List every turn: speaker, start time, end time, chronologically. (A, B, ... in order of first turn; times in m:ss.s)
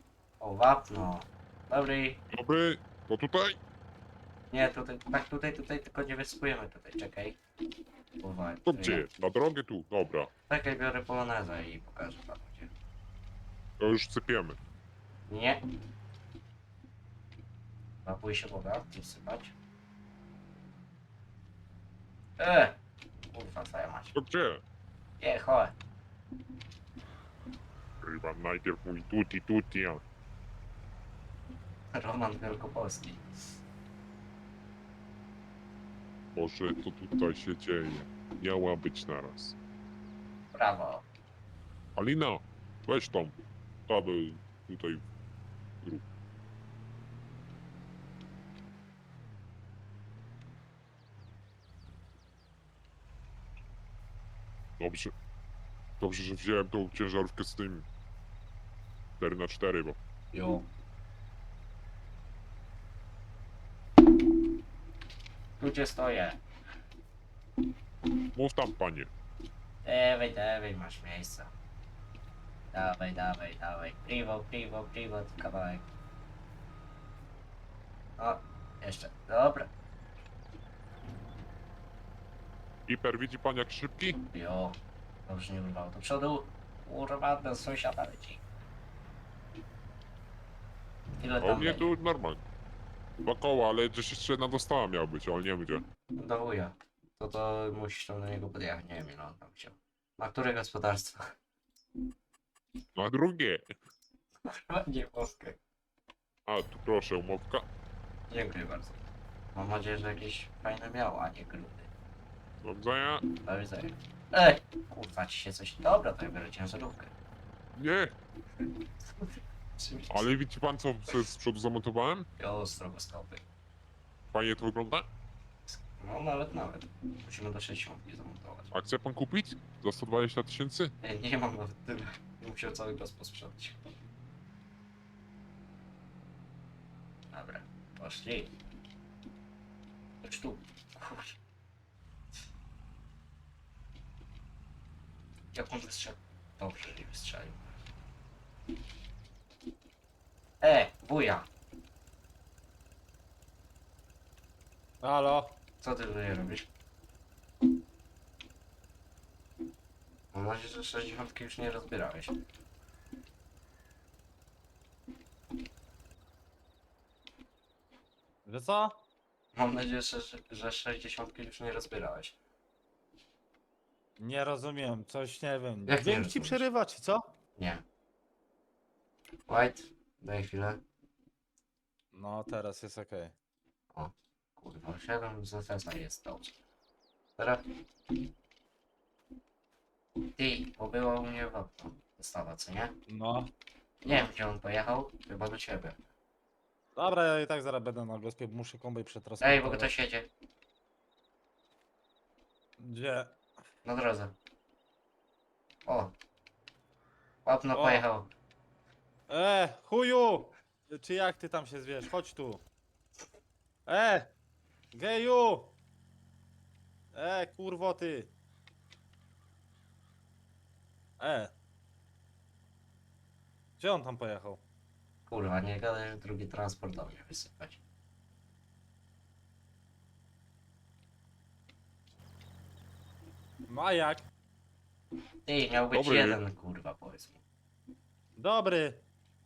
0:00.4-0:02.2 A
0:02.3-0:03.6 B
0:04.5-0:07.4 A
0:08.2-0:09.1 A
0:08.7-0:10.3 B
0:10.5-0:12.7 A
0:13.8-0:14.6 B
0:15.3-0:15.6 A
0:18.0-0:19.5 A
0:22.4-0:22.8 A
0:23.3-0:24.1 A
0:24.1-0:24.6 B
0:25.2-0:25.8 A
0:28.0-0:30.0 B
0:31.9-0:33.2 A
0:36.3-0:39.6 B
0:40.5-0:41.0 A
0:42.0-0:45.0 B
0:54.8-0:55.1 B
0:56.0-0:57.9 B
0:59.2-1:00.0 B
1:00.3-1:00.6 A
1:05.6-1:06.4 A
1:08.3-1:09.1 B
1:09.8-1:11.5 A
1:12.7-1:15.8 A
1:18.2-1:19.7 A
1:22.9-1:24.2 B
1:24.2-1:28.4 A
1:31.2-1:31.9 A
1:31.4-1:32.4 B
1:33.2-1:35.8 B
1:36.2-1:41.3 A
1:43.0-1:43.7 B
1:44.4-1:45.6 A
1:46.5-1:47.6 B
1:48.3-1:49.0 A
1:49.5-1:51.9 A
1:52.6-1:53.2 B
1:53.4-1:57.1 A
1:57.8-1:58.1 B
1:59.1-2:00.3 A
2:00.1-2:02.3 B
2:02.4-2:03.4 A
2:04.3-2:05.1 B
2:05.7-2:08.7 A
2:08.7-2:10.9 B
2:11.0-2:14.0 A
2:17.3-2:18.5 A
2:20.2-2:21.4 A
2:25.5-2:27.7 A
2:30.6-2:31.5 A
2:35.0-2:35.6 C
2:35.8-2:36.7 A
2:40.3-2:42.4 A
2:48.4-2:48.9 C
2:49.5-2:52.4 A
2:54.2-2:57.2 C
2:55.9-2:56.6 A
2:57.6-2:57.8 A
2:59.5-3:00.8 A
3:02.1-3:03.3 C
3:03.9-3:06.5 A
3:07.4-3:07.6 A
3:10.3-3:12.9 A
3:13.1-3:13.5 C
3:14.0-3:16.0 A
3:17.0-3:19.9 C
3:19.4-3:20.3 A
3:22.8-3:23.4 C
3:23.8-3:24.3 A
3:25.8-3:26.1 A
3:27.4-3:28.3 A
3:27.7-3:28.0 C
3:29.3-3:32.6 C
3:33.9-3:34.3 C
3:34.9-3:35.7 C
3:37.1-3:38.3 C
3:41.2-3:41.5 C
3:43.8-3:44.6 C
3:45.3-3:47.8 A
3:53.7-3:54.3 C
3:55.4-3:57.4 A
3:55.9-3:56.4 B
3:58.4-3:59.0 C